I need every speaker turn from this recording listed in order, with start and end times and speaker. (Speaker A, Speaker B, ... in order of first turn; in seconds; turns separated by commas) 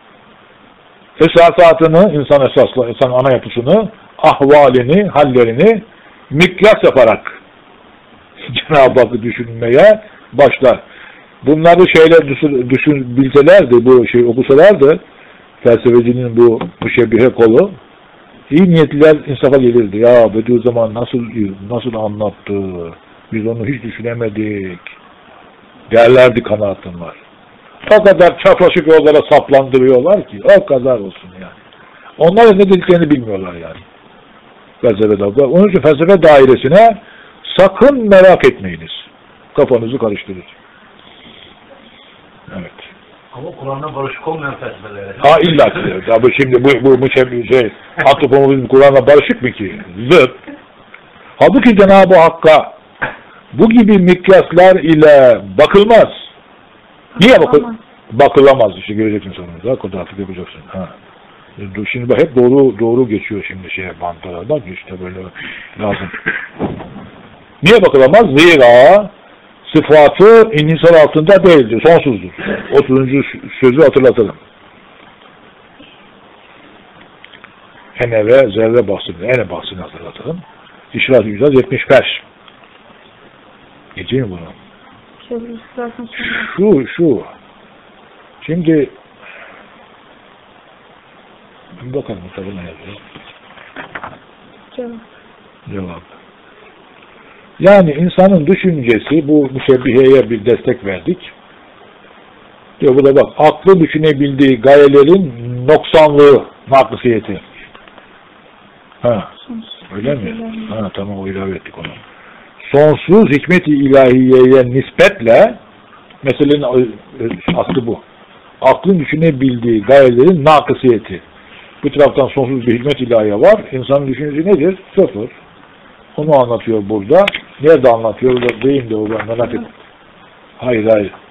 Speaker A: 1.2-7.4, Speaker A: 8.5-10.8, Speaker A: 11.4-15.0, Speaker A: 15.6-17.8, Speaker A: 18.5-24.9, Speaker A: 25.9-27.2, Speaker A: 27.9-31.5, Speaker A: 32.2-33.8, Speaker A: 34.8-39.0, Speaker A: 39.5-40.5, Speaker A: 42.5-42.9, Speaker B: 43.3-45.9, Speaker A: 45.2-50.4, Speaker A: 51.4-52.8, Speaker A: 53.5-56.2, Speaker A: 57.2-60.9, Speaker C: 57.2-57.8, Speaker A: 61.6-66.2, Speaker A: 67.6-69.1, Speaker A: 69.7-74.4, Speaker A: 78.0-82.2, Speaker A: 84.0-84.5, Speaker C: 85.2-86.5, Speaker A: 86.2-87.3, Speaker A: 88.4-88.9, Speaker A: 91.8-93.0, Speaker C: 94.7-95.0, Speaker A: 95.7-96.1, Speaker A: 97.6-101.3, Speaker A: 102.8-107.4, Speaker A: 109.0-109.3, Speaker C: 109.4-110.8, Speaker A: 109.9-112.0, Speaker A: 112.6-115.6, Speaker A: 116.2-118.0, Speaker A: 118.6-121.2, Speaker A: 121.8-125.3, Speaker A: 126.2-129.7, Speaker A: 130.6-131.1